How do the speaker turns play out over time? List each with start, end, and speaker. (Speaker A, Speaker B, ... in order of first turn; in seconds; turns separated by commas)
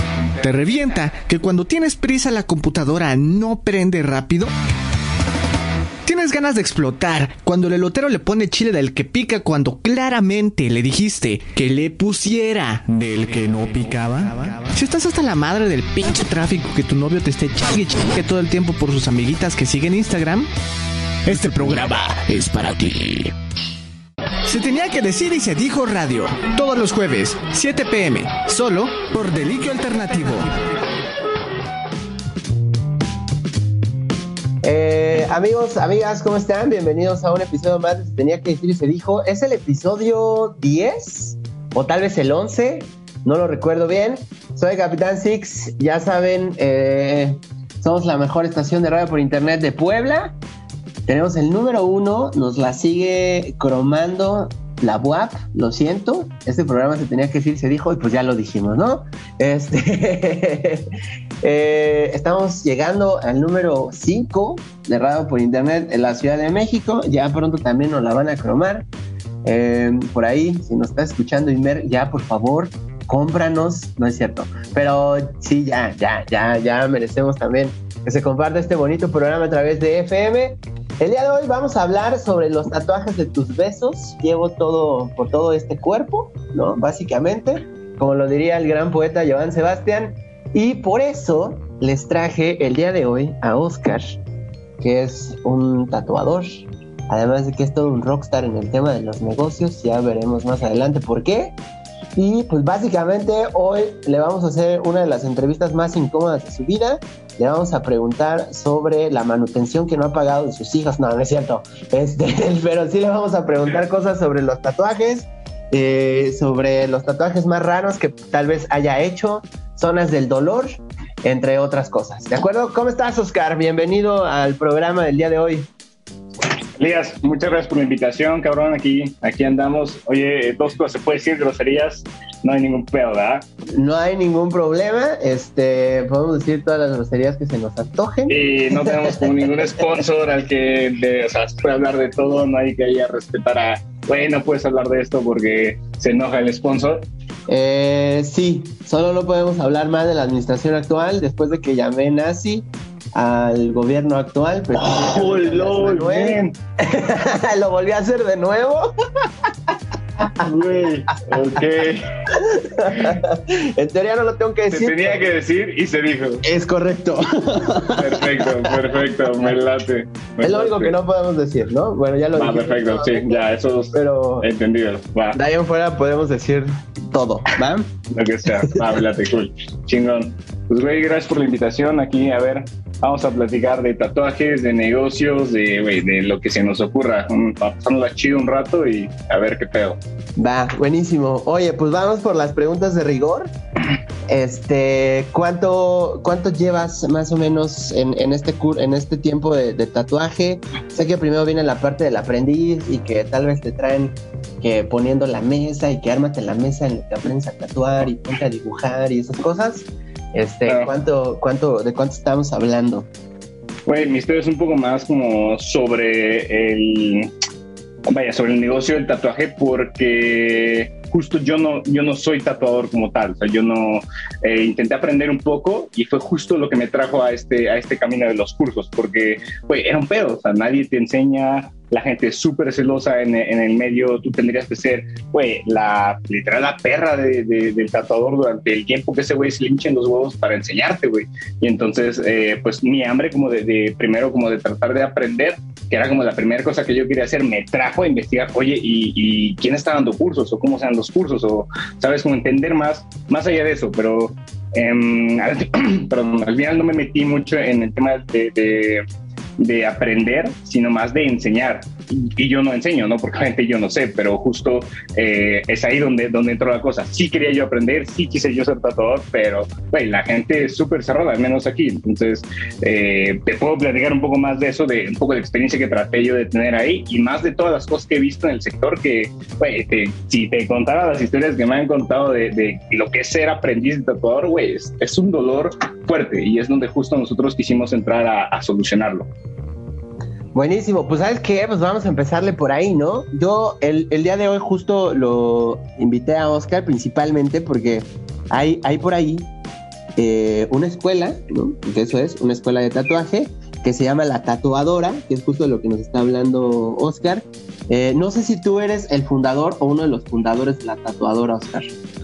Speaker A: 0.4-4.5, Speaker A: 6.1-20.5, Speaker A: 21.3-23.3, Speaker A: 24.5-30.8, Speaker B: 34.6-50.4, Speaker B: 51.1-60.9, Speaker B: 61.4-68.9, Speaker B: 69.5-94.2, Speaker B: 94.8-101.5, Speaker B: 102.2-125.7, Speaker C: 126.8-133.4, Speaker B: 133.7-139.1, Speaker C: 138.3-147.1, Speaker B: 147.5-158.9, Speaker C: 154.7-156.6, Speaker B: 160.2-160.5, Speaker C: 160.4-162.1, Speaker B: 162.3-165.3, Speaker C: 162.9-163.2, Speaker C: 164.7-166.4, Speaker B: 166.4-169.0, Speaker C: 167.9-171.0, Speaker B: 170.4-174.5, Speaker C: 172.3-175.4, Speaker B: 175.3-177.9, Speaker C: 178.1-190.0, Speaker B: 190.4-193.5, Speaker B: 194.3-213.1, Speaker C: 213.9-217.3, Speaker C: 218.1-259.0, Speaker C: 259.6-289.3, Speaker B: 290.5-299.5, Speaker B: 300.2-311.9